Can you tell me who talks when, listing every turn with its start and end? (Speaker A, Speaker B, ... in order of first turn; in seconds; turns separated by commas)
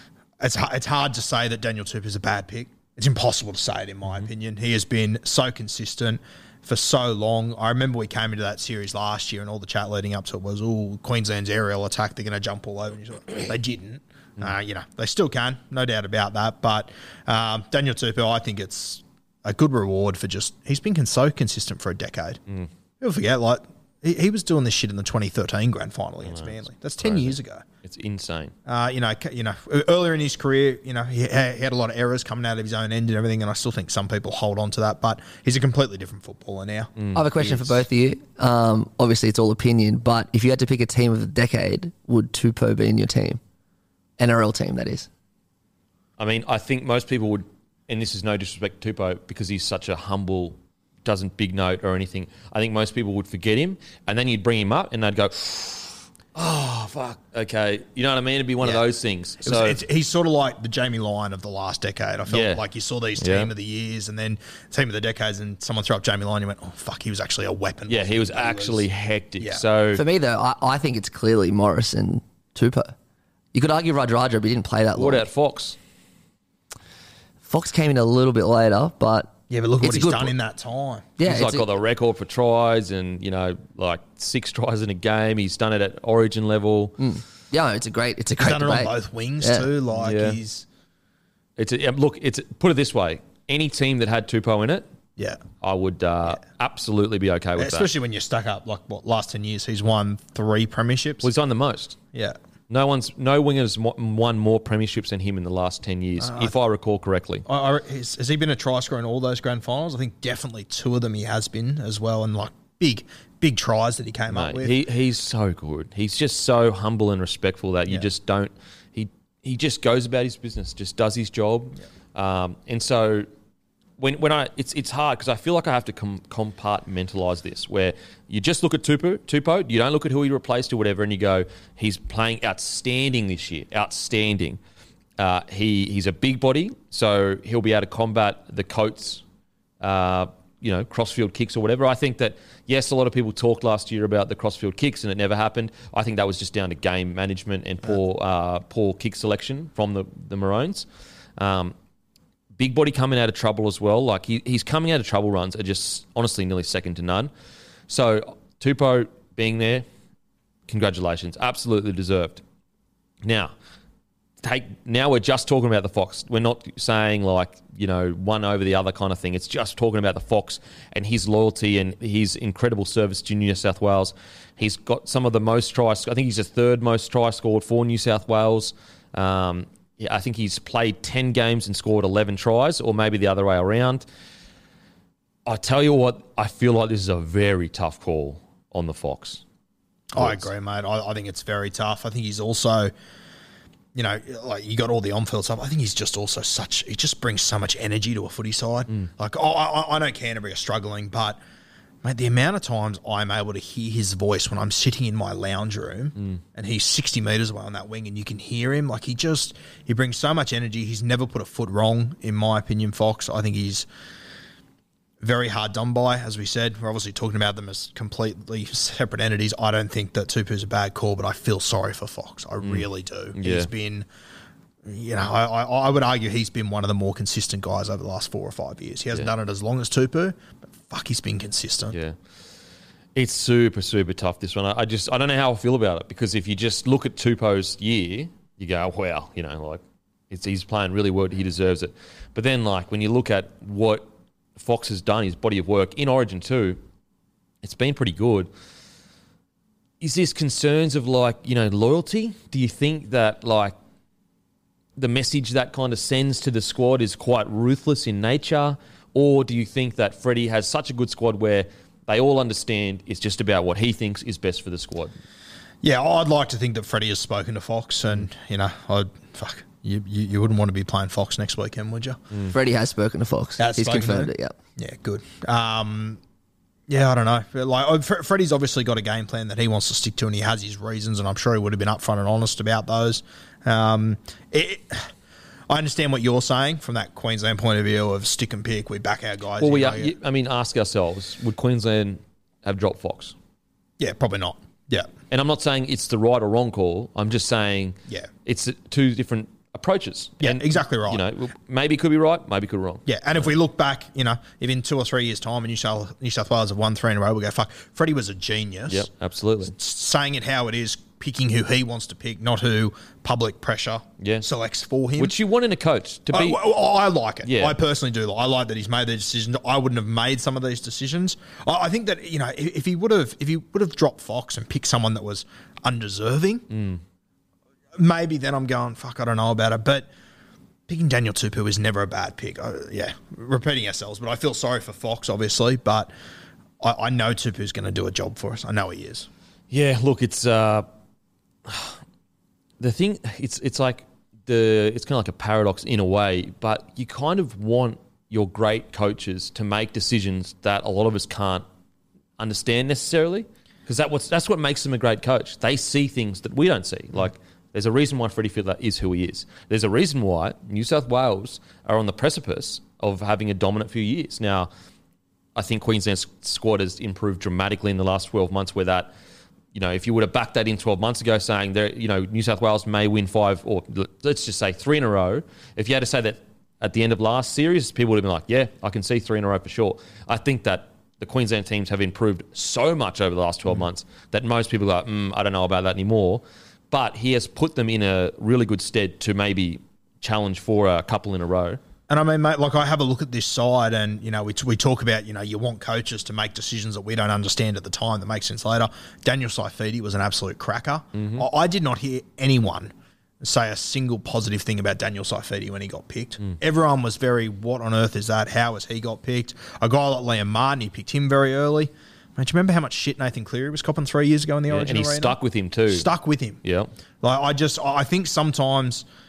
Speaker A: 0.4-22.4, Speaker A: 23.0-27.6, Speaker B: 26.2-28.5, Speaker A: 28.6-37.8, Speaker B: 37.0-37.3, Speaker C: 37.1-43.4, Speaker C: 44.2-45.1, Speaker B: 46.2-59.8, Speaker A: 59.4-68.9, Speaker B: 62.3-62.6, Speaker B: 63.2-63.5, Speaker B: 67.9-70.0, Speaker A: 69.4-69.6, Speaker C: 69.9-72.9, Speaker C: 73.5-75.3, Speaker B: 74.9-75.8, Speaker C: 77.4-80.3, Speaker A: 79.5-81.1, Speaker C: 81.2-81.7, Speaker B: 81.2-87.0, Speaker C: 87.0-89.7, Speaker A: 88.4-90.6, Speaker B: 89.9-90.4, Speaker B: 91.6-94.9, Speaker A: 95.2-95.4, Speaker B: 95.6-97.9, Speaker A: 97.6-101.3, Speaker B: 101.2-102.0, Speaker B: 102.7-107.5, Speaker A: 106.2-106.5, Speaker A: 107.5-114.8, Speaker B: 114.3-123.3, Speaker B: 124.0-134.6, Speaker B: 135.2-139.2, Speaker B: 139.8-150.8, Speaker B: 151.4-151.7, Speaker B: 152.6-157.3, Speaker B: 157.9-159.8, Speaker B: 160.7-162.4, Speaker B: 163.2-163.5, Speaker B: 164.4-184.0, Speaker B: 185.4-189.4, Speaker A: 190.1-192.9, Speaker B: 190.2-190.5, Speaker A: 193.9-201.4, Speaker A: 202.0-213.9, Speaker A: 215.2-224.1, Speaker B: 222.6-223.7, Speaker A: 224.9-231.9, Speaker B: 233.1-246.8, Speaker B: 247.6-248.5, Speaker B: 250.0-253.8, Speaker B: 254.9-265.1, Speaker A: 265.8-272.2, Speaker C: 272.5-274.6, Speaker A: 273.6-276.2, Speaker A: 276.9-285.1, Speaker A: 285.7-290.1, Speaker B: 289.6-293.4, Speaker A: 294.0-295.1, Speaker B: 295.3-303.5, Speaker A: 300.4-301.2, Speaker A: 303.1-309.1, Speaker B: 308.9-309.7, Speaker A: 309.6-315.3, Speaker B: 314.2-314.4, Speaker B: 315.2-316.7, Speaker A: 316.3-326.6, Speaker B: 317.4-317.8, Speaker B: 326.7-327.0, Speaker A: 327.9-330.1, Speaker A: 330.9-336.1, Speaker A: 336.8-339.3, Speaker B: 339.7-340.9, Speaker B: 341.6-342.0, Speaker B: 342.8-351.6, Speaker B: 352.4-364.7, Speaker B: 365.6-369.1, Speaker B: 369.7-391.8, Speaker A: 392.1-415.4, Speaker B: 401.1-401.4, Speaker B: 414.7-416.1, Speaker A: 415.9-416.6, Speaker B: 416.6-416.9, Speaker A: 417.2-419.1